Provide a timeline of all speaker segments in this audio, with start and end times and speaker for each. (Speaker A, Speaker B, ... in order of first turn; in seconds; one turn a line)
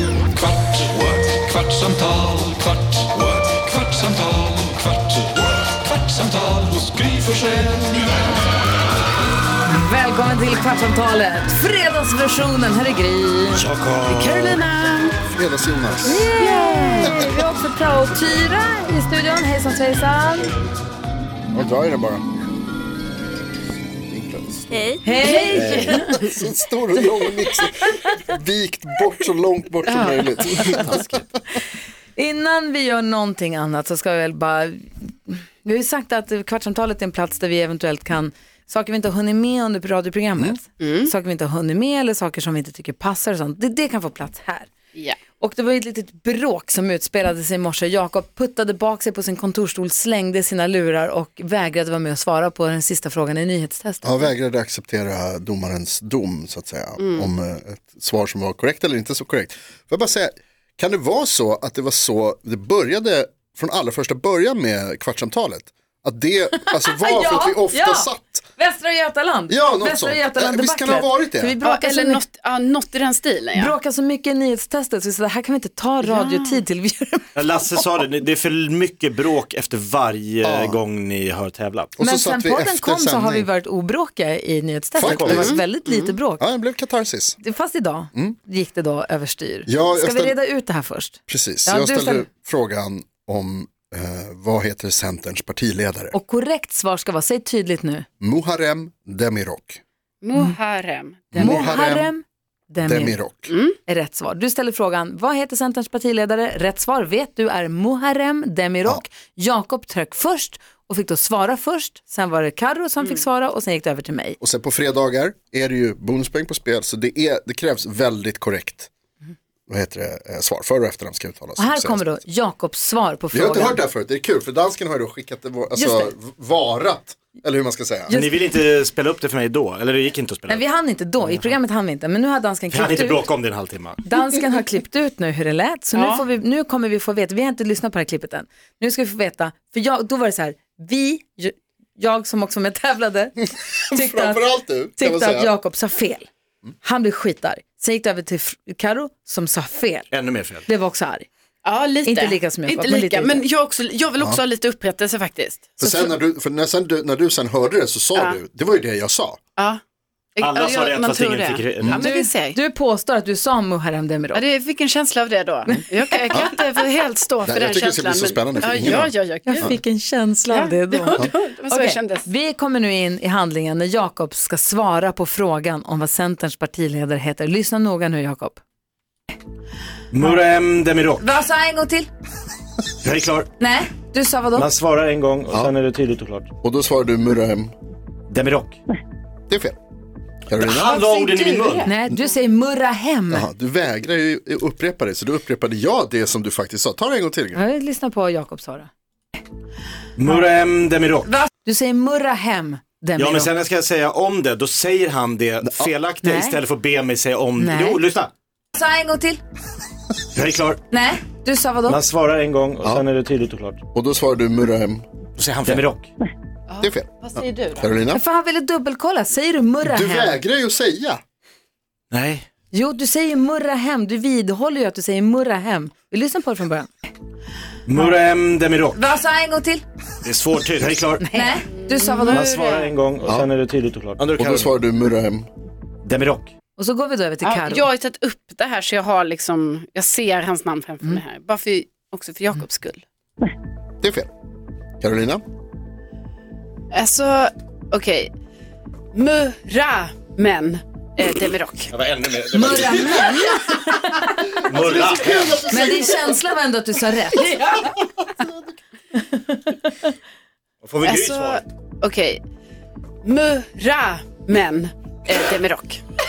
Speaker A: 0.4-8.2
Speaker B: 9.6-13.6
Speaker C: 13.5-14.6
Speaker D: 14.0-15.2
Speaker E: 15.3-16.2
Speaker B: 16.1-20.5
Speaker D: 16.3-17.2
Speaker E: 17.0-17.4
Speaker E: 21.5-22.2
Speaker E: 24.0-31.2
Speaker B: 25.0-26.1
Speaker D: 25.2-26.3
Speaker C: 25.5-26.0
Speaker D: 29.9-30.8
Speaker B: 32.1-44.7
Speaker D: 40.8-41.1
Speaker B: 45.3-54.3
Speaker E: 54.0-68.4
Speaker D: 57.0-57.3
Speaker B: 66.6-72.2
Speaker E: 69.5-71.5
Speaker D: 71.6-73.8
Speaker B: 73.5-77.3
Speaker D: 76.0-76.6
Speaker C: 77.3-81.9
Speaker E: 80.4-80.8
Speaker E: 82.0-83.5
Speaker B: 82.0-86.4
Speaker E: 85.0-85.6
Speaker C: 85.0-85.4
Speaker D: 85.2-86.2
Speaker E: 86.4-87.4
Speaker B: 87.4-92.3
Speaker E: 89.7-90.4
Speaker E: 91.3-96.2
Speaker B: 96.1-98.1
Speaker E: 98.2-99.8
Speaker D: 100.2-101.7
Speaker E: 101.3-102.1
Speaker B: 101.3-103.2
Speaker E: 102.8-103.5
Speaker D: 103.5-103.8
Speaker B: 103.8-114.4
Speaker E: 114.4-118.9
Speaker E: 119.7-122.1
Speaker B: 121.6-123.8
Speaker E: 123.3-128.2
Speaker B: 125.7-126.1
Speaker B: 128.1-128.4
Speaker C: 128.1-130.6
Speaker B: 130.5-133.3
Speaker C: 132.7-134.0
Speaker B: 134.1-146.3
Speaker D: 135.9-136.2
Speaker E: 143.7-145.6
Speaker B: 146.8-150.1
Speaker C: 150.1-150.7
Speaker B: 150.7-151.3
Speaker D: 151.7-155.7
Speaker B: 152.0-153.4
Speaker E: 154.2-154.4
Speaker B: 155.8-156.2
Speaker E: 155.8-159.4
Speaker D: 158.2-158.4
Speaker D: 160.4-162.6
Speaker C: 160.4-162.1
Speaker B: 162.0-164.4
Speaker D: 164.3-169.7
Speaker B: 165.7-166.6
Speaker E: 167.4-169.8
Speaker B: 169.5-178.6
Speaker D: 170.5-172.3
Speaker C: 180.1-181.3
Speaker B: 181.2-182.1
Speaker C: 183.0-183.5
Speaker B: 183.6-184.7
Speaker C: 184.6-186.5
Speaker E: 186.6-187.7
Speaker C: 188.3-188.8
Speaker E: 189.5-189.8
Speaker E: 190.5-191.0
Speaker C: 190.6-191.9
Speaker D: 190.9-191.9
Speaker B: 191.8-193.5
Speaker E: 193.3-197.6
Speaker B: 197.5-198.9
Speaker C: 200.2-201.3
Speaker B: 201.2-203.5
Speaker C: 203.2-208.3
Speaker B: 206.2-206.6
Speaker B: 207.6-208.0
Speaker B: 208.8-209.4
Speaker C: 210.3-210.8
Speaker B: 210.9-212.0
Speaker C: 211.9-213.8
Speaker E: 213.9-215.0
Speaker C: 215.4-216.1
Speaker D: 216.7-217.9
Speaker E: 216.8-218.2
Speaker B: 218.1-220.4
Speaker E: 219.8-221.2
Speaker C: 222.1-222.5
Speaker B: 222.7-226.9
Speaker C: 227.9-229.1
Speaker B: 228.9-229.8
Speaker C: 230.2-231.4
Speaker B: 231.3-232.5
Speaker D: 231.7-232.9
Speaker C: 232.3-234.8
Speaker E: 233.2-233.5
Speaker E: 234.4-235.5
Speaker C: 236.0-236.5
Speaker B: 236.8-237.9
Speaker D: 237.4-243.0
Speaker E: 244.0-244.3
Speaker E: 245.0-245.4
Speaker D: 246.9-248.3
Speaker D: 249.1-251.9
Speaker C: 251.9-253.4
Speaker B: 252.5-254.6
Speaker D: 253.2-253.4
Speaker C: 254.7-255.8
Speaker E: 254.7-256.4
Speaker B: 255.7-257.9
Speaker D: 257.4-257.8
Speaker E: 258.0-258.7
Speaker B: 259.2-260.1
Speaker C: 260.8-261.6
Speaker D: 261.0-262.4
Speaker D: 263.2-266.0